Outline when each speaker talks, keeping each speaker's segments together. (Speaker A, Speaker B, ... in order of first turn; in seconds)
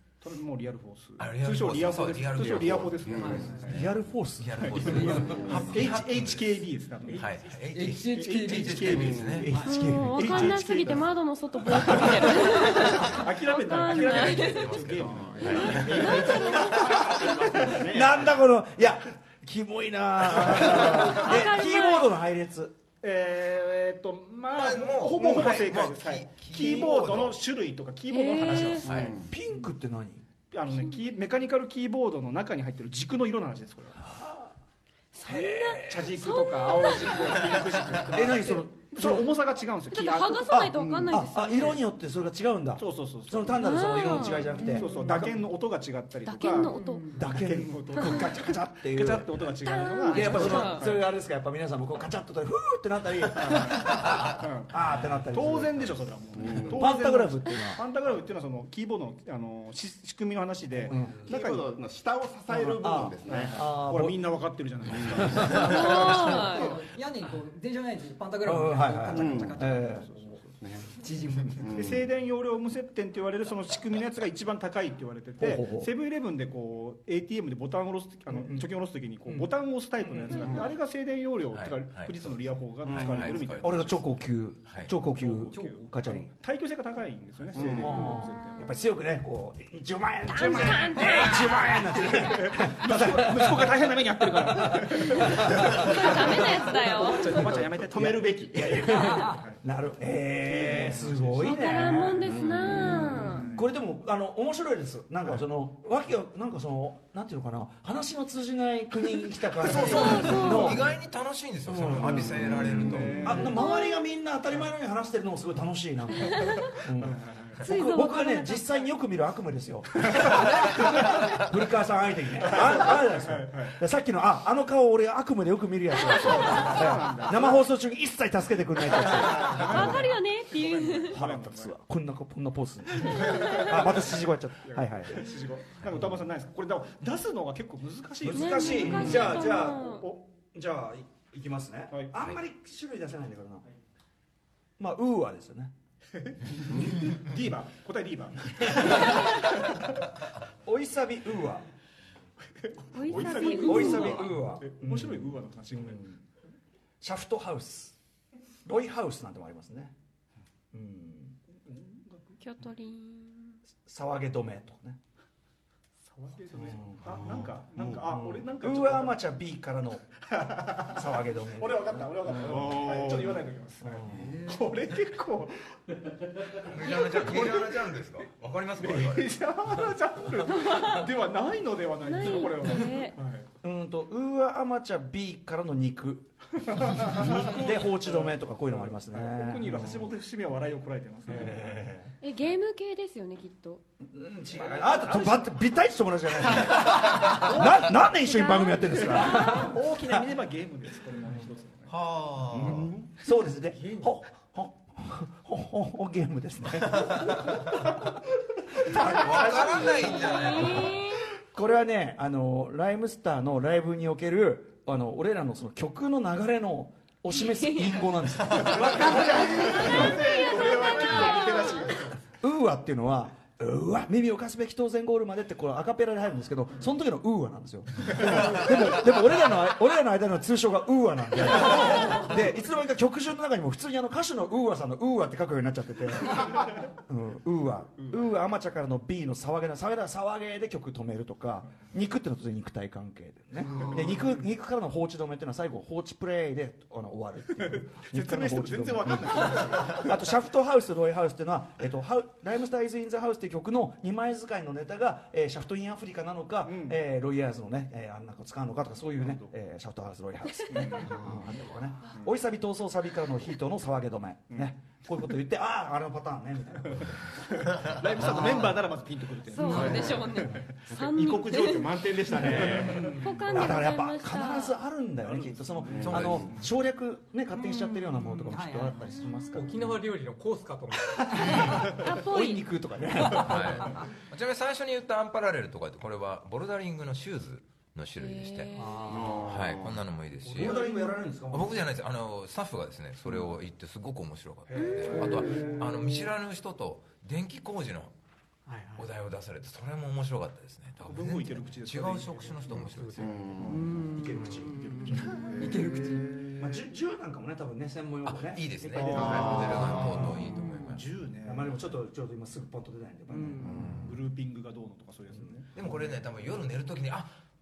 Speaker A: 0.2-3.9, 4.6-7.3, 8.1-9.6, 10.1-11.1, 11.7-17.8, 23.0-29.0, 30.5-34.1, 35.8-40.7, 42.8-51.1, 53.3-61.7, 63.2-66.8, 69.8-70.6, 71.7-84.1, 85.0-88.7, 92.1-99.6, 100.4-102.0, 102.9-103.7, 112.6-113.6, 117.0-117.6, 122.4-123.8, 126.0-127.7, 128.8-131.7, 133.2-140.3, 141.9-142.2, 146.6-149.8, 152.6-156.2, 161.6-162.4, 166.1-169.2, 170.3-175.7, 176.8-177.8, 178.8-183.5, 186.7-191.8, 194.6-195.3, 197.3-197.9, 199.1-201.9, 219.0-222.1, 238.0-238.3, 243.7-244.4, 247.6-250.2, 256.6-257.0, 259.2-259.5, 260.7-261.3, 267.0-270.8, 272.6-273.1, 275.2-276.6, 295.1-295.7, 301.0-302.8, 304.8-306.7, 309.0-311.9, 314.0-315.7
Speaker B: 1.2-9.5, 13.9-17.1, 24.5-27.4, 28.8-29.2, 54.0-54.4, 81.5-83.9, 84.7-84.9, 109.6-113.4, 176.6-179.4, 201.9-202.9, 206.9-207.6, 208.9-211.0, 276.0-276.5, 281.4-281.8, 283.3-288.8, 289.4-290.8, 291.5-298.1, 298.9-303.5, 308.2-311.0, 315.7-317.3
Speaker C: 2.4-3.6, 5.2-5.8, 8.9-9.5, 14.8-18.4, 28.8-29.3, 40.8-41.1, 56.4-56.8, 61.2-63.7, 64.9-65.4, 69.1-69.7, 70.6-70.9, 71.5-72.1, 82.8-83.5, 87.5-88.0, 97.2-99.2, 102.2-103.3, 172.4-173.5, 202.5-203.1, 218.7-222.2, 261.1-261.4, 269.7-270.3, 270.9-273.1, 275.9-276.6, 289.1-290.0, 295.2-295.4, 303.2-303.9, 305.5-305.9, 309.0-310.4, 313.6-314.1
Speaker D: 3.3-3.5, 5.1-5.4, 7.7-9.2, 65.7-70.3, 70.9-71.7, 85.5-86.1, 99.0-99.4, 174.0-174.7, 269.6-270.0, 278.2-279.1, 290.6-291.2, 295.2-295.8, 303.6-306.5, 310.4-310.9, 313.3-313.8
Speaker E: 3.7-5.3, 9.4-11.0, 17.6-22.8, 29.3-30.2, 34.0-34.5, 35.2-36.3, 38.0-39.3, 40.5-45.3, 47.1-49.4, 50.1-56.0, 56.6-57.8, 60.9-61.3, 62.5-64.2, 64.9-65.8, 68.4-70.1, 75.4-75.9, 83.6-86.3, 87.6-96.2, 98.5-111.0, 111.7-130.1, 131.1-135.3, 138.2-143.6, 144.8-145.7, 148.9-149.3, 150.6-151.6, 153.1-156.0, 157.0-157.9, 158.6-159.9, 160.7-161.3, 163.8-165.0, 166.5-170.0, 170.7-172.8, 173.8-174.3, 183.6-190.1, 191.3-192.1, 194.0-200.2, 202.5-208.0, 208.8-210.9, 211.5-220.2, 222.4-267.3, 267.8-268.8, 272.4-279.9, 281.6-283.9, 290.4-291.8, 294.7-296.1, 303.9-305.1, 306.5-310.4, 311.4-314.0
Speaker F: 9.6-14.8, 15.4-16.9, 20.7-22.1, 28.1-28.9, 35.1-37.4, 39.9-41.8, 43.6-45.0, 46.2-47.1, 48.0-48.2, 49.6-50.8, 65.5-66.7, 88.0-88.7, 90.3-92.2, 95.1-97.4, 101.4-103.5, 109.7-110.8, 113.3-114.0, 116.2-116.7, 117.6-118.8, 126.1-126.4, 129.4-131.2, 133.2-133.6, 138.3-140.0, 152.9-154.3, 162.4-163.6, 180.6-180.9, 182.1-183.1, 192.2-193.8, 198.1-199.7, 209.5-211.2, 217.3-218.1, 219.0-222.0, 269.5-274.8, 279.1-279.6, 281.9-282.6, 288.2-289.3, 294.8-295.1
Speaker G: 279.5-281.8, 288.8-289.5, 298.7-299.1, 302.8-303.3